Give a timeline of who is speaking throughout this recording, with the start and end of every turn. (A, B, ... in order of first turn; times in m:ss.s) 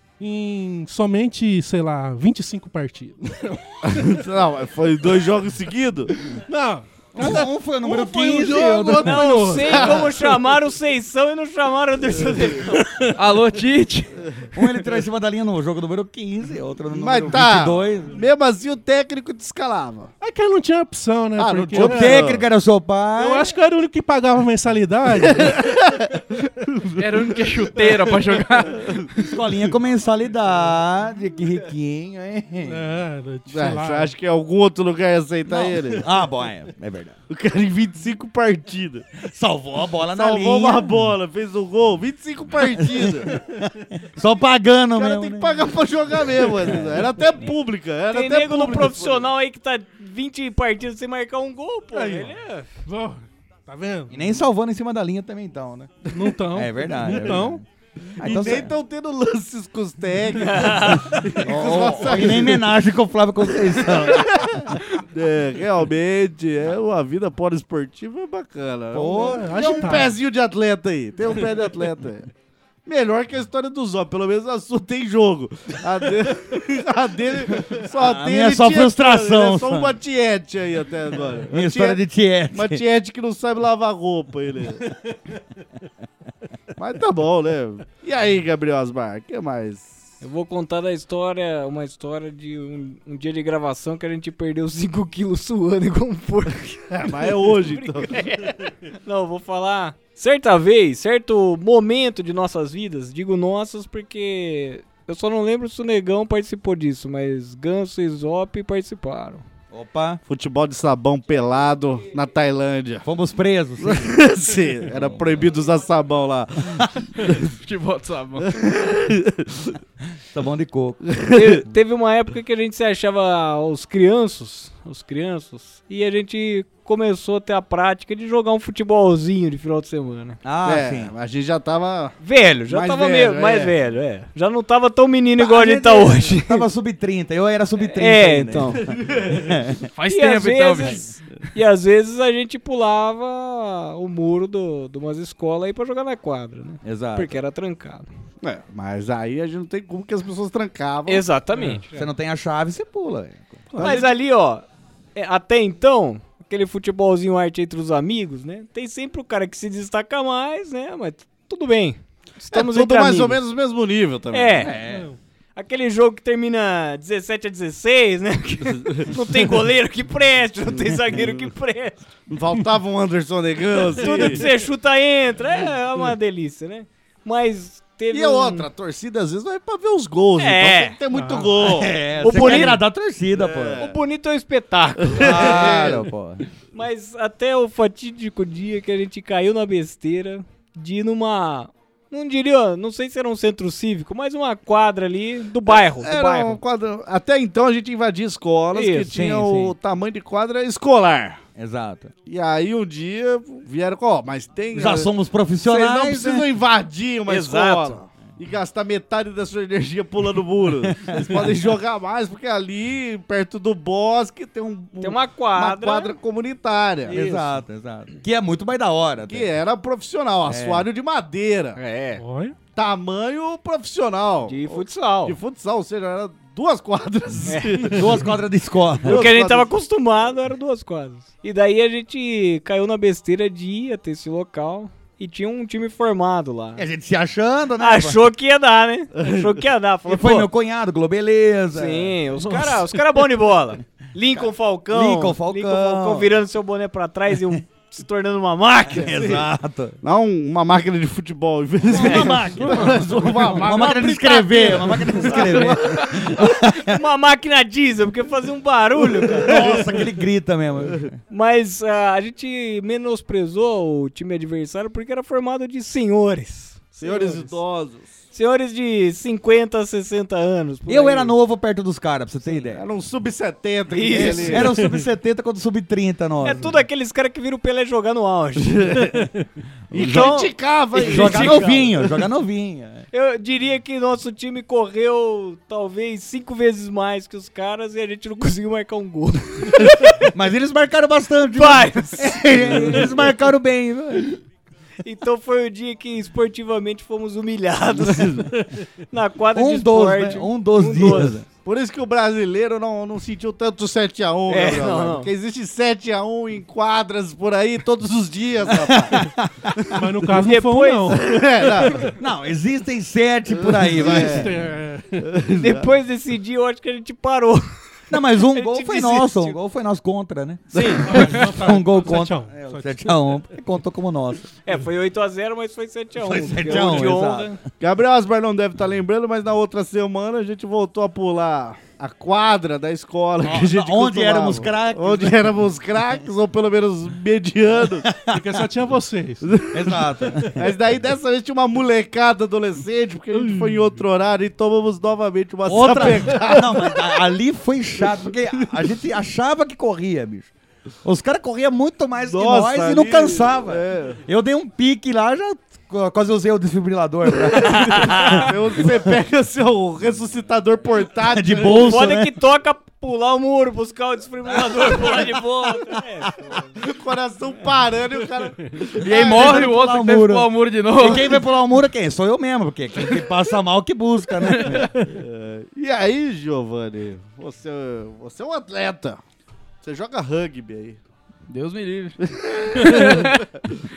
0:00.2-0:04.2 A
0:03.8-0:06.1 B
0:06.3-0:10.1 A
0:07.2-0:09.4 C
0:09.0-0:12.8 D
0:09.7-0:10.2 B
0:12.8-0:13.1 A
0:13.2-0:14.2 E
0:14.5-0:18.2 C
0:16.9-0:20.1 B
0:20.2-0:22.3 A
0:21.4-0:22.5 B
0:21.7-0:23.5 C
0:23.2-0:25.6 A
0:25.2-0:26.1 B
0:26.7-0:29.1 B
0:27.0-0:29.1 E
0:29.2-0:32.8 C
0:32.6-0:34.1 A
0:33.5-0:36.1 B
0:35.5-0:37.2 C
0:37.3-0:39.1 B
0:39.2-0:40.9 C
0:40.1-0:43.4 B
0:42.8-0:45.7 C
0:45.0-0:49.3 B
0:46.6-0:47.1 C
0:48.1-0:52.7 D
0:51.9-0:54.1 A
0:54.1-0:57.6 C
0:56.1-0:57.6 A
0:58.2-0:58.7 C
0:58.2-1:02.7 B
1:00.4-1:01.0 D
1:01.4-1:04.8 C
1:03.6-1:12.3 B
1:08.9-1:10.1 C
1:09.1-1:10.2 A
1:12.8-1:22.0 B
1:17.7-1:20.0 C
1:21.5-1:22.8 C
1:22.5-1:24.9 B
1:26.8-1:29.9 B
1:30.2-1:49.4 D
1:36.9-1:38.5 B
1:49.7-1:50.2 C
1:50.3-1:53.1 B
1:53.0-1:54.2 C
1:53.8-1:57.5 B
1:54.9-1:55.5 C
1:57.6-1:58.6 E
1:58.4-1:59.8 B
2:00.3-2:01.0 C
2:01.2-2:01.6 B
2:01.3-2:10.4 D
2:10.4-2:11.1 C
2:10.6-2:12.2 B
2:12.2-2:16.6 D
2:12.7-2:13.7 B
2:15.4-2:19.9 C
2:15.6-2:16.0 B
2:17.8-2:18.8 D
2:18.9-2:19.5 B
2:20.0-2:21.0 E
2:20.1-2:28.1 D
2:26.8-2:27.4 C
2:28.4-2:31.3 B
2:31.1-2:32.1 D
2:31.6-2:31.8 A
2:31.9-2:33.7 C
2:33.8-2:34.1 B
2:33.8-2:43.4 D
2:42.5-2:44.8 B
2:44.3-2:44.8 D
2:44.6-2:45.1 C
2:44.9-2:45.2 A
2:45.6-2:52.0 D
2:48.7-2:49.1 B
2:52.3-2:54.5 B
2:54.0-2:58.7 D
2:54.2-2:54.4 A
2:58.1-3:02.8 B
3:00.4-3:01.0 D
3:01.1-3:01.6 A
3:01.6-3:03.9 C
3:02.2-3:02.8 D
3:03.3-3:04.0 B
3:03.8-3:05.9 D
3:05.1-3:06.0 B
3:05.2-3:06.5 C
3:06.7-3:16.6 D
3:15.7-3:21.4 B
3:18.7-3:19.1 D
3:19.1-3:19.8 C
3:21.6-3:22.1 C
3:22.3-3:25.1 B
3:24.7-3:26.5 C
3:25.6-3:37.2 B
3:27.3-3:28.0 D
3:30.9-3:31.6 C
3:35.0-3:36.1 D
3:37.1-3:37.6 D
3:37.1-3:39.5 C
3:39.3-3:41.8 B
3:40.5-3:40.9 C
3:41.8-3:42.2 D
3:42.2-3:42.6 A
3:42.8-3:48.2 B
3:44.5-3:45.4 D
3:47.5-3:47.8 D
3:47.9-3:49.2 C
3:49.0-3:49.7 B
3:49.0-3:56.8 D
3:56.8-3:58.2 C
3:57.8-4:00.5 D
3:59.2-3:59.5 B
4:00.1-4:02.2 C
4:01.7-4:09.2 D
4:02.5-4:02.8 A
4:04.9-4:06.4 C
4:08.9-4:10.0 C
4:09.1-4:09.5 B
4:10.0-4:16.4 B
4:11.9-4:17.0 C
4:12.6-4:13.8 A
4:16.4-4:19.6 D
4:19.2-4:20.0 B
4:19.4-4:21.2 C
4:21.3-4:27.6 D
4:27.0-4:28.1 B
4:28.3-4:31.3 D
4:30.9-4:32.8 C
4:32.5-4:34.7 B
4:33.9-4:34.7 D
4:34.1-4:36.8 C
4:34.7-4:35.0 A
4:36.4-4:39.0 D
4:38.7-4:39.2 B
4:39.9-4:41.8 B
4:39.9-4:42.0 D
4:40.0-4:40.3 C
4:40.9-4:43.1 C
4:43.1-4:50.2 D
4:50.2-4:54.4 C
4:51.5-4:52.8 D
4:55.0-4:58.5 D
4:58.0-4:58.5 B
4:59.1-5:01.4 D
4:59.5-5:01.5 C
5:01.6-5:10.0 B
5:04.5-5:05.3 D
5:08.7-5:09.7 C
5:09.9-5:11.4 A
5:10.4-5:11.2 D
5:11.1-5:12.1 B
5:12.0-5:14.5 C
5:13.5-5:14.6 B
5:14.0-5:15.3 A
5:15.2-5:15.9 B
5:15.6-5:17.8 D
5:18.1-5:24.5 C
5:18.4-5:19.6 D
5:20.7-5:21.3 B
5:20.8-5:23.1 A
5:24.7-5:27.6 D
5:26.2-5:27.6 C
5:27.8-5:38.2 B
5:33.4-5:35.6 C
5:38.0-5:38.6 C
5:38.3-5:39.4 A
5:39.4-5:47.2 B
5:39.7-5:40.7 C
5:45.6-5:50.5 C
5:51.0-5:59.1 C
5:52.2-5:54.2 B
5:57.6-6:02.0 B
6:01.3-6:02.3 C
6:01.7-6:06.6 D
6:04.5-6:05.9 C
6:06.8-6:09.7 B
6:09.0-6:11.4 E
6:09.0-6:14.9 C
6:14.4-6:14.8 E
6:15.0-6:19.2 B
6:19.8-6:21.0 B
6:21.5-6:23.5 E
6:22.3-6:23.3 B